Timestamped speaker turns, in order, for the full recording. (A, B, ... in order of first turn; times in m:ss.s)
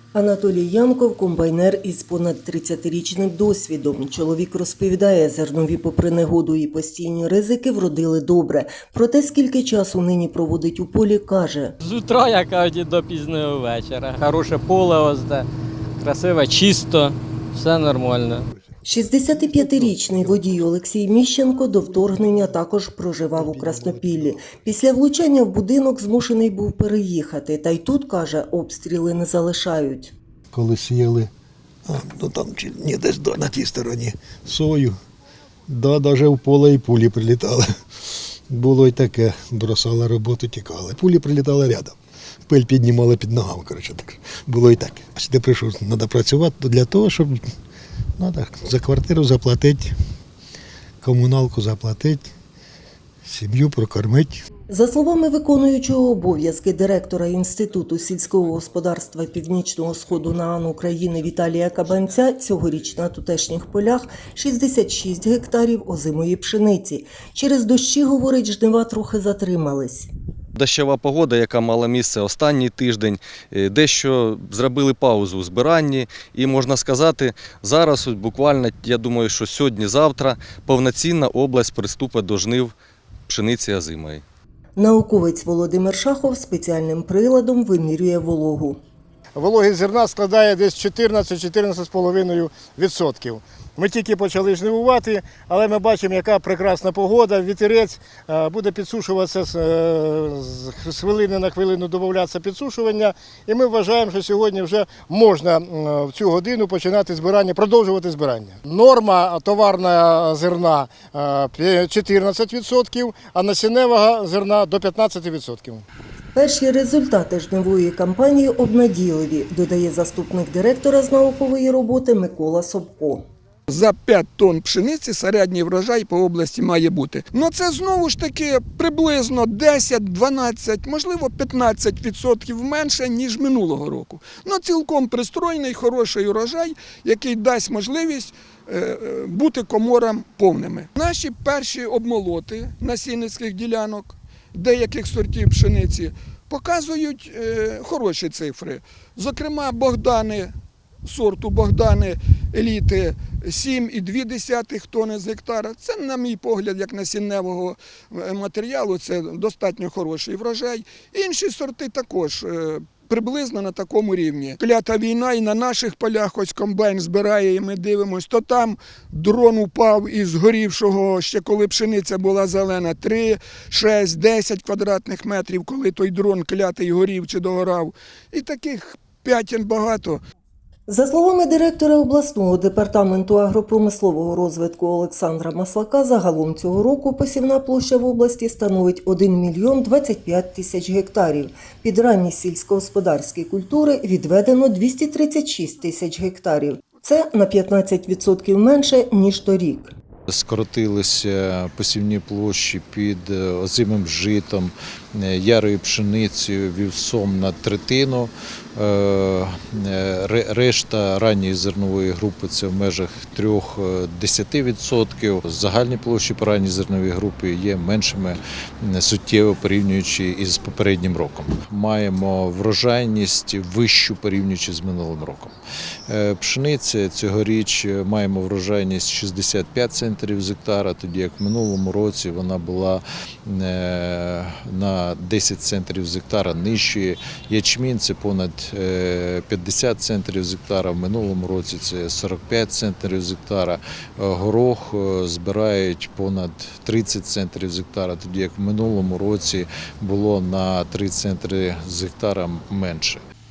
0:00.1-0:11.8 A
0:11.8-0:15.5 B
0:16.0-0:18.4 B
0:18.8-0:20.6 C
0:18.9-0:30.1 A
0:23.3-0:24.6 C
0:30.5-0:31.3 C
0:31.8-0:35.0 C
0:35.7-0:37.7 C
0:38.5-0:42.0 C
0:42.5-0:47.4 C
0:48.2-0:50.0 C
0:51.0-0:52.3 C
0:53.2-0:54.4 C
0:54.7-1:10.1 A
1:10.6-1:22.8 D
1:23.3-1:24.2 D
1:24.8-1:28.8 A
1:29.4-1:55.8 E
1:56.4-2:03.2 A
2:03.7-2:30.5 F
2:31.1-3:00.2 F
3:00.9-3:19.9 A
3:20.3-3:45.6 G
3:46.1-4:13.2 G